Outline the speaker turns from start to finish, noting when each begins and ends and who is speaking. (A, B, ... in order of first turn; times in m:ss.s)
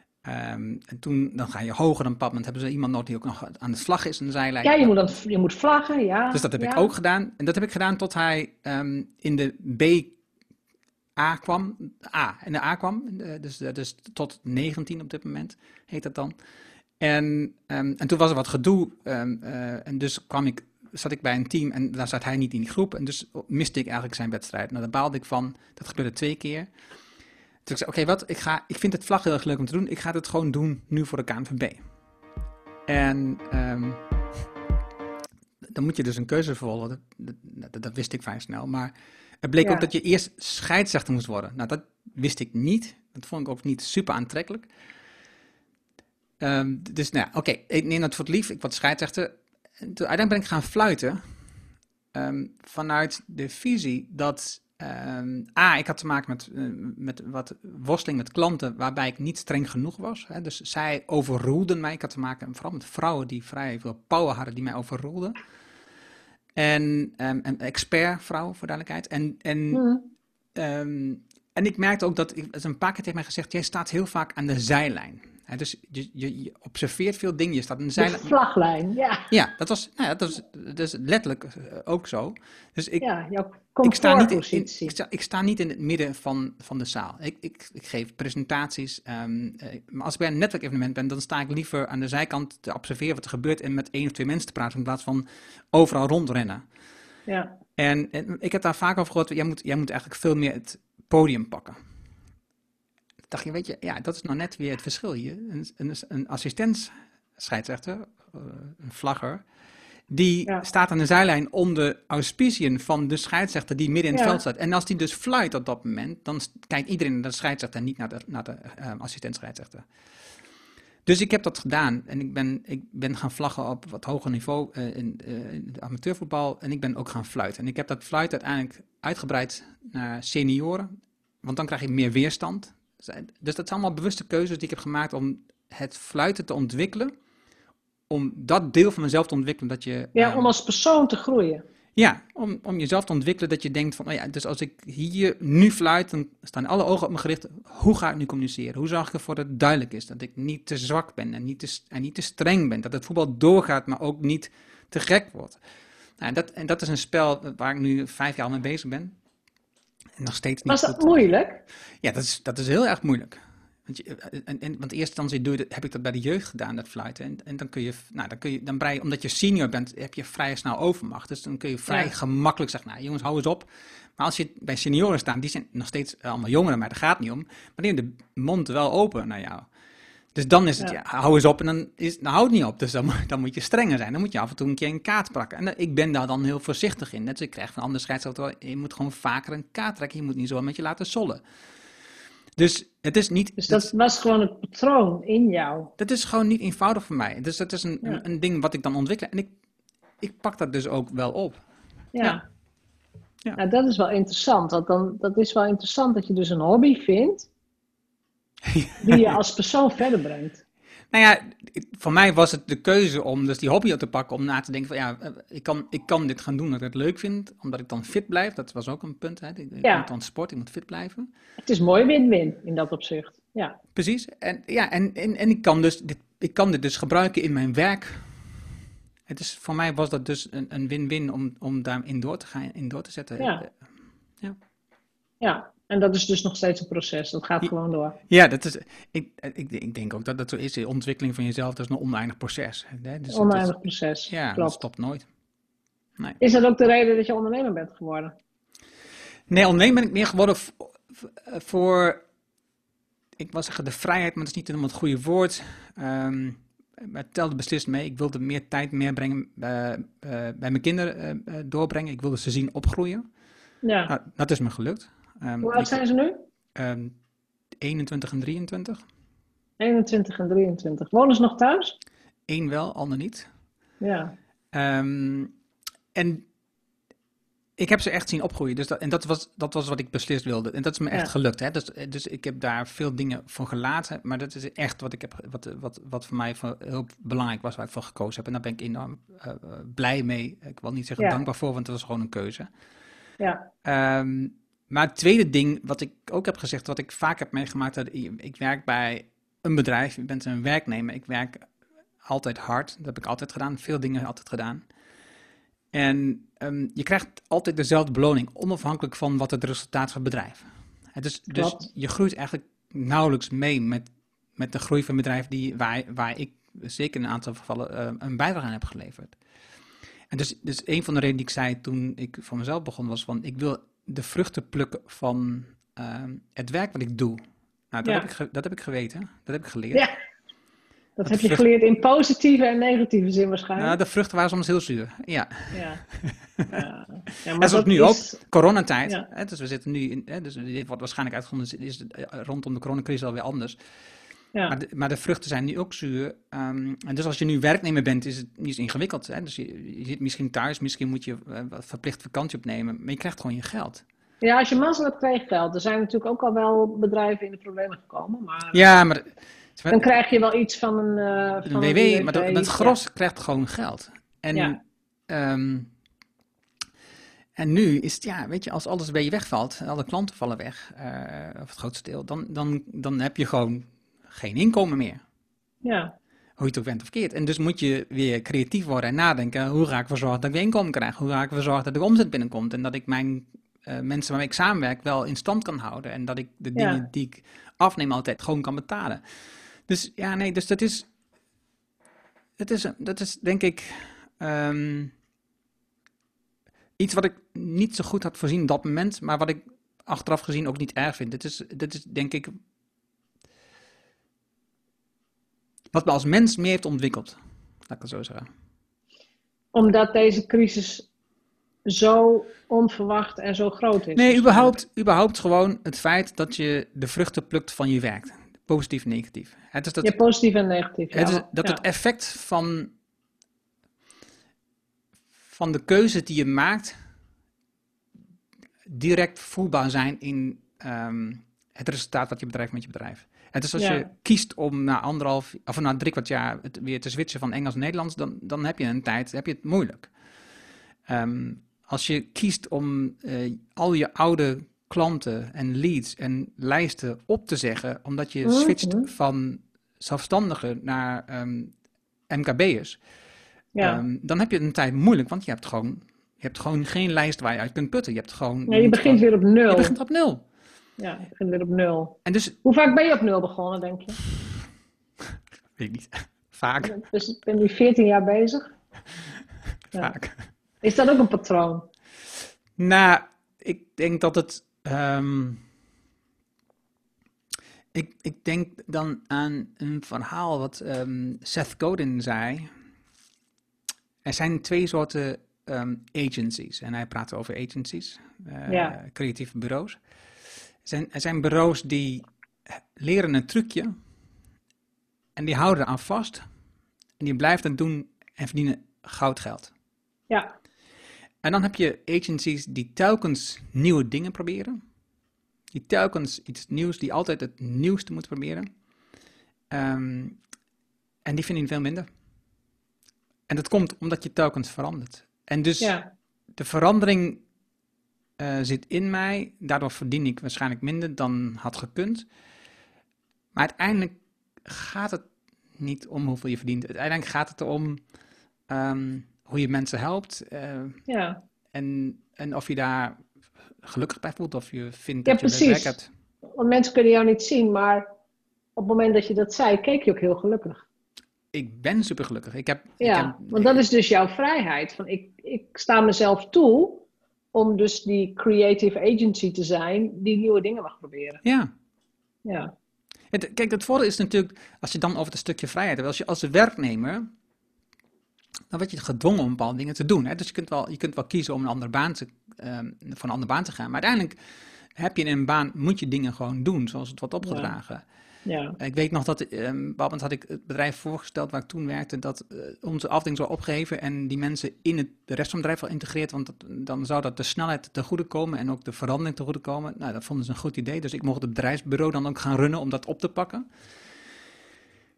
0:00.2-0:04.9 A
0:04.6-0:06.9 B
0:06.3-0:10.2 A
0:11.2-0:16.3 A
0:17.0-0:26.7 A
0:27.6-0:31.8 A
0:32.9-0:34.0 A
0:35.6-0:44.7 A
0:39.6-0:39.9 B
0:46.4-0:51.2 A
0:52.1-1:05.3 A
1:06.6-1:09.8 A
1:09.7-1:10.1 B
1:10.5-1:18.3 A
1:18.0-1:19.3 B
1:19.3-1:23.0 A
1:23.0-1:24.9 B
1:23.8-1:36.6 A
1:37.3-1:37.6 B
1:37.8-1:41.8 A
1:43.3-1:49.4 A
1:50.1-1:59.8 A
1:54.1-1:54.4 B
2:01.0-2:10.9 A
2:11.4-2:17.1 A
2:18.1-2:20.5 A
2:20.1-2:21.6 B
2:22.0-2:35.6 A
2:36.2-2:39.1 A
2:40.2-2:41.2 A
2:40.7-2:41.6 B
2:42.0-2:59.7 A
3:00.3-3:11.4 A
3:12.6-3:13.9 A
3:13.6-3:15.9 B
3:16.0-3:19.5 A
3:20.2-3:21.6 A
3:22.1-3:22.4 B
3:23.6-3:27.5 B
3:28.6-3:29.4 A
3:29.0-3:30.6 B
3:31.1-3:41.3 A
3:39.8-3:40.1 B
3:41.6-3:43.8 B
3:43.9-3:48.3 A
3:49.3-3:53.7 A
3:53.4-3:53.6 B
3:55.4-3:58.2 B
3:58.3-4:03.7 A
4:03.3-4:04.8 B
4:04.3-4:05.3 A
4:06.4-4:08.3 B
4:09.5-4:12.2 A
4:13.4-4:23.2 A
4:23.8-4:24.1 B
4:24.1-4:26.0 A
4:25.6-4:26.4 B
4:26.7-4:27.2 A
4:27.8-4:29.0 A
4:29.8-4:32.0 B
4:32.5-4:33.5 A
4:34.0-4:34.3 B
4:34.7-4:35.5 A
4:36.1-4:36.4 A
4:37.8-4:52.7 A
4:53.4-4:53.7 B
4:53.8-5:01.7 A
5:02.2-5:04.8 A
5:05.9-5:14.0 A
5:11.5-5:11.9 B
5:14.6-5:19.4 A
5:20.3-5:27.4 A
5:27.9-5:30.0 A
5:31.2-5:34.0 B
5:31.2-5:31.6 A
5:33.8-5:36.8 A
5:35.7-5:36.0 B
5:36.7-5:38.4 B
5:37.6-5:43.8 A
5:44.7-5:54.0 A
5:54.4-5:58.9 B
5:58.7-6:00.1 A
5:59.9-6:03.0 B
6:01.7-6:05.9 A
6:07.6-6:15.2 A
6:15.8-6:16.1 B
6:16.6-6:29.2 A
6:26.7-6:27.0 B
6:29.9-6:31.1 A
6:32.6-6:35.1 A
6:37.0-6:42.5 A
6:45.9-6:48.5 A
6:49.7-6:51.1 B
6:51.8-6:54.8 B
6:54.1-7:00.2 A
7:00.0-7:01.8 B
7:01.1-7:02.9 A
7:05.5-7:07.0 A
7:08.9-7:20.1 A
7:13.8-7:14.0 B
7:21.1-7:31.7 A
7:28.4-7:29.1 B
7:32.3-7:33.0 A
7:33.7-7:34.0 B
7:33.8-7:40.4 A
7:38.7-7:39.9 B
7:41.0-7:44.2 B
7:42.2-7:42.6 A
7:45.8-7:47.0 A
7:46.8-7:48.7 B
7:49.9-7:50.4 A
7:50.8-7:51.9 B
7:52.8-7:55.6 A
7:57.9-8:02.7 A
8:04.2-8:10.0 A
8:08.7-8:09.0 B
8:10.8-8:13.9 A
8:15.4-8:16.4 A
8:17.2-8:19.7 A
8:21.4-8:24.8 A
8:25.7-8:28.6 A
8:29.7-8:30.4 A
8:31.2-8:32.1 A
8:33.5-8:36.0 A
8:35.8-8:36.1 B
8:36.6-8:37.4 A
8:38.4-8:42.3 A
8:43.5-8:48.0 A
8:48.7-8:51.0 A
8:51.1-8:51.4 B
8:51.7-8:53.2 A
8:53.8-8:56.1 A
8:55.2-8:55.9 B
8:56.6-8:58.1 B
8:58.8-9:00.8 B
9:01.5-9:03.8 A
9:03.0-9:11.4 B
9:11.4-9:11.7 A
9:12.4-9:12.7 B
9:13.3-9:17.3 A
9:18.7-9:24.4 A
9:24.9-9:28.0 A
9:27.4-9:27.7 B
9:28.4-9:28.8 B
9:28.8-9:43.6 A